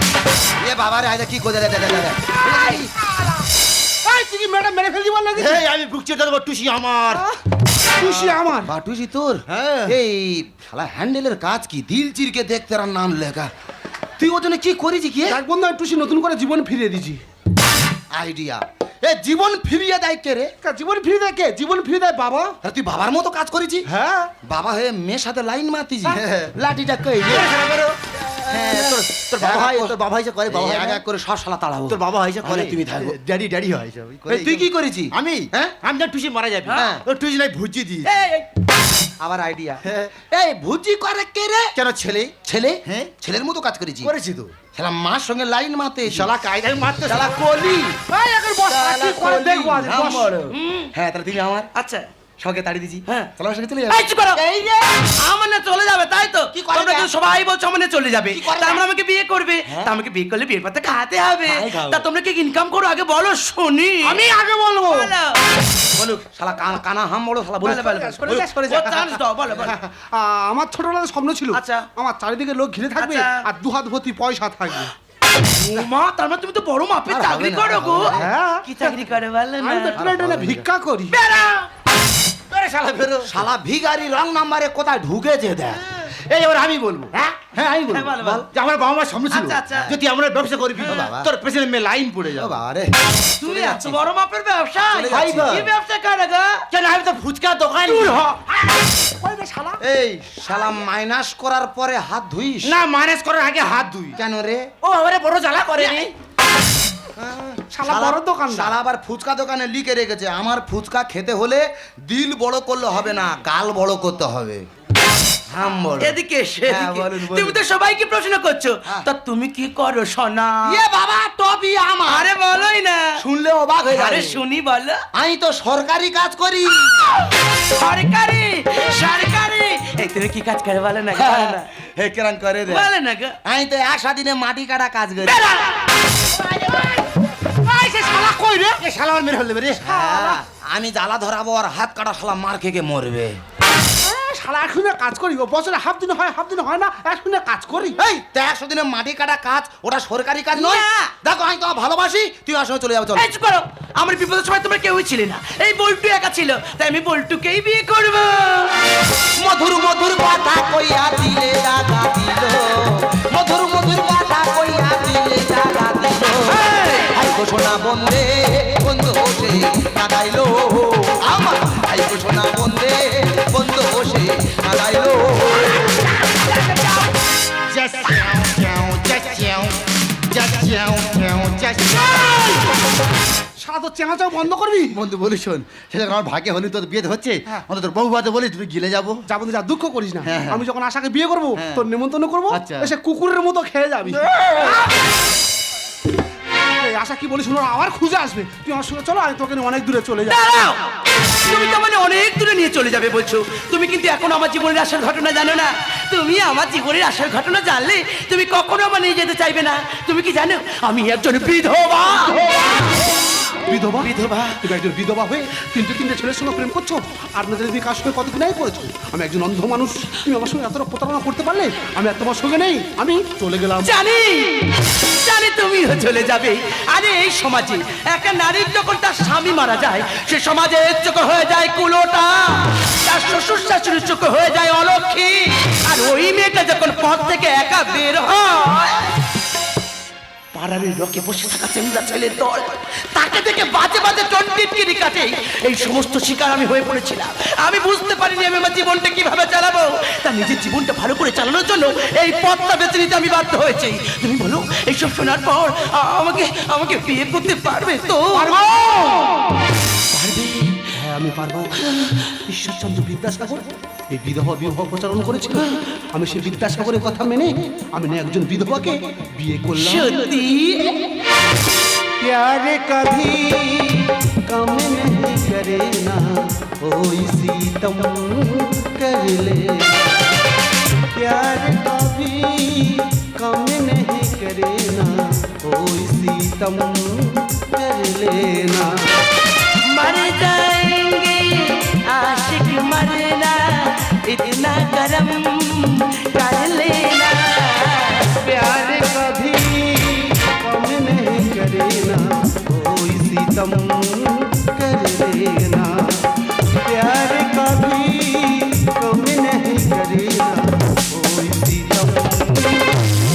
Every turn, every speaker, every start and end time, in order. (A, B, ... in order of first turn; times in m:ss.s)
0:00.6-0:02.9 A
0:02.4-0:03.3 B
0:04.0-0:05.6 B
0:05.4-0:07.2 C
0:07.1-0:07.4 B
0:08.0-0:08.7 B
0:08.0-0:13.5 A
0:09.5-0:10.0 C
0:14.2-0:15.4 A
0:15.3-0:17.2 B
0:18.1-0:20.5 A
0:20.6-0:22.6 B
0:22.6-0:23.8 A
0:23.9-0:24.3 B
0:24.4-0:27.5 A
0:26.1-0:26.5 C
0:27.2-0:31.0 C
0:28.5-0:30.0 A
0:30.5-0:33.2 A
0:31.9-0:38.3 C
0:34.3-0:35.8 A
0:36.6-0:36.9 D
0:36.7-0:37.0 A
0:38.0-0:38.5 D
0:39.2-0:41.7 A
0:39.8-0:40.1 C
0:41.8-0:42.3 C
0:42.4-0:44.1 A
0:42.9-0:43.1 C
0:44.0-0:44.6 C
0:44.8-0:46.3 A
0:46.1-0:47.4 C
0:47.1-0:48.0 A
0:48.1-0:50.3 B
0:48.7-0:51.7 A
0:50.5-0:50.9 D
0:51.8-0:52.1 D
0:52.4-0:55.1 A
0:53.9-0:54.4 D
0:55.2-1:04.3 D
0:56.5-0:57.1 A
0:58.3-0:58.8 A
1:01.5-1:02.0 A
1:04.0-1:05.1 B
1:04.9-1:05.4 D
1:06.0-1:08.5 A
1:07.6-1:09.8 D
1:07.8-1:14.9 B
1:11.5-1:11.8 D
1:13.0-1:13.3 D
1:15.5-1:20.0 D
1:17.1-1:18.3 A
1:18.1-1:18.9 B
1:19.6-1:21.2 B
1:20.0-1:20.6 A
1:21.1-1:21.7 D
1:22.5-1:23.4 C
1:23.2-1:25.8 A
1:26.1-1:32.6 C
1:27.9-1:28.5 D
1:29.3-1:30.0 D
1:30.8-1:31.3 A
1:32.4-1:34.0 A
1:33.4-1:36.7 D
1:34.9-1:35.6 A
1:35.1-1:35.7 C
1:36.7-1:38.3 C
1:37.8-1:38.3 D
1:39.0-1:39.8 B
1:39.8-1:42.8 A
1:42.6-1:44.2 C
1:44.2-1:44.7 A
1:44.8-1:46.1 C
1:47.2-1:54.6 A
1:47.7-1:48.7 B
1:55.5-1:57.6 A
1:56.0-2:00.8 D
2:00.6-2:02.3 A
2:02.1-2:03.2 D
2:03.2-2:04.4 A
2:03.9-2:05.0 D
2:05.2-2:06.9 A
2:07.7-2:11.7 D
2:11.1-2:12.9 A
2:12.7-2:13.4 D
2:13.4-2:15.4 A
2:15.2-2:15.9 D
2:16.5-2:17.0 B
2:17.6-2:18.8 B
2:18.8-2:19.9 C
2:19.8-2:23.4 A
2:19.8-2:20.4 B
2:24.0-2:28.0 B
2:28.0-2:33.3 A
2:30.5-2:31.1 D
2:33.2-2:38.7 D
2:39.4-2:55.9 A
2:46.5-2:47.1 D
2:56.5-2:56.9 D
2:57.7-2:59.8 C
3:00.3-3:02.7 C
3:03.6-3:05.0 B
3:04.9-3:09.2 C
3:09.3-3:14.3 B
3:10.3-3:10.6 A
3:12.5-3:12.9 C
3:16.8-3:20.4 B
3:20.3-3:20.8 D
3:21.3-3:32.7 D
3:33.6-3:44.0 B
3:34.0-3:34.6 D
3:43.8-3:59.1 D
4:00.5-4:18.6 D
4:18.3-4:19.6 B
4:20.1-4:20.8 D
4:20.4-4:30.3 B
4:29.7-4:31.0 D
4:32.2-4:40.1 B
4:41.2-4:49.0 B
4:49.9-4:58.4 D
4:58.4-5:06.2 B
5:06.7-5:12.7 B